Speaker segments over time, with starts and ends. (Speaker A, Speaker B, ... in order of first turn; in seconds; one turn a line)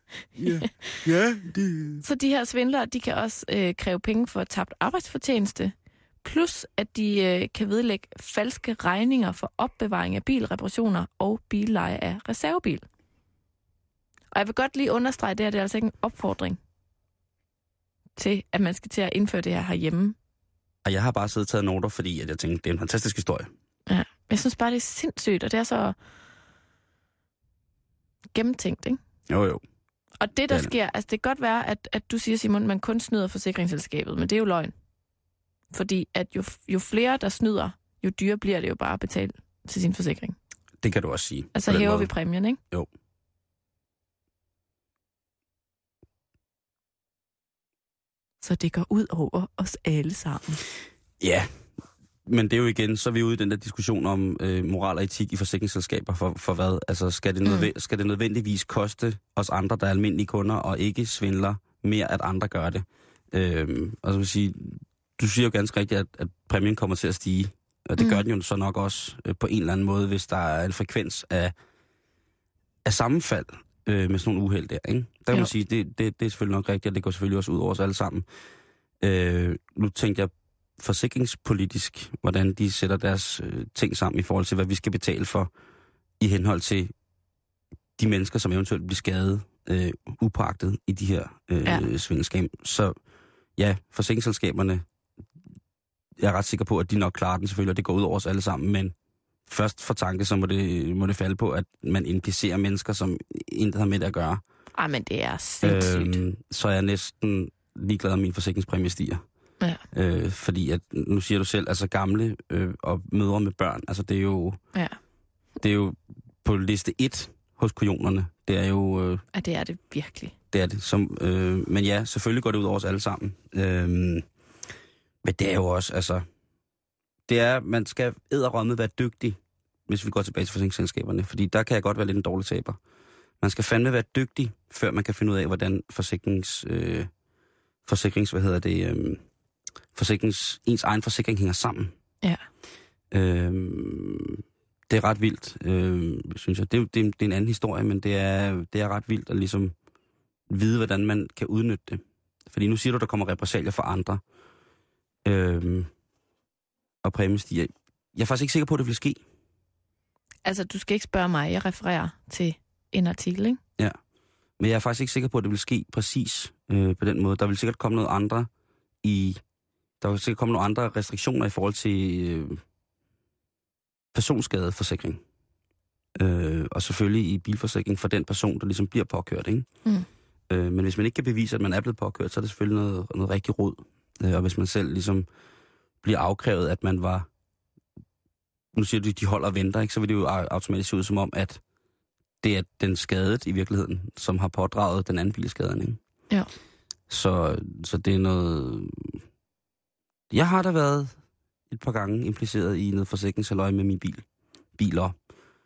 Speaker A: 0.4-2.0
Speaker B: 2.0-12.8
Speaker B: 14.3-16.6
Speaker B: 18.2-20.2
Speaker A: 20.9-23.5
Speaker B: 23.9-25.9
Speaker B: 28.3-29.0
Speaker A: 29.3-29.6
Speaker B: 30.2-34.7
Speaker B: 35.7-40.4
Speaker A: 40.8-42.1
Speaker B: 41.5-42.6
Speaker B: 48.4-50.6
Speaker A: 51.2-51.5
Speaker A: 52.3-71.5
Speaker A: 72.8-78.3
Speaker A: 79.0-85.5
Speaker A: 86.2-86.9
Speaker A: 88.0-93.0
Speaker A: 93.6-94.8
Speaker A: 96.2-98.9
Speaker A: 99.5-104.4
Speaker B: 104.8-106.2
Speaker A: 105.6-109.2
Speaker A: 109.9-114.6
Speaker A: 115.6-119.2
Speaker B: 119.3-120.3
Speaker A: 120.5-124.2
Speaker A: 125.2-126.2
Speaker A: 127.3-129.4
Speaker A: 129.9-132.8
Speaker A: 133.4-137.1
Speaker A: 137.9-139.2
Speaker A: 140.0-141.9
Speaker A: 143.1-149.7
Speaker A: 150.5-154.2
Speaker A: 155.2-155.9
Speaker A: 157.0-159.2
Speaker B: 160.4-163.6
Speaker A: 164.6-168.5
Speaker A: 169.0-169.4
Speaker A: 170.0-172.6
Speaker A: 174.1-175.2
Speaker A: 176.2-179.7
Speaker A: 180.5-185.3
Speaker A: 186.0-187.3
Speaker A: 188.7-191.6
Speaker A: 192.4-196.0
Speaker A: 197.1-199.2
Speaker A: 200.3-201.2
Speaker A: 201.7-204.2
Speaker A: 204.8-205.2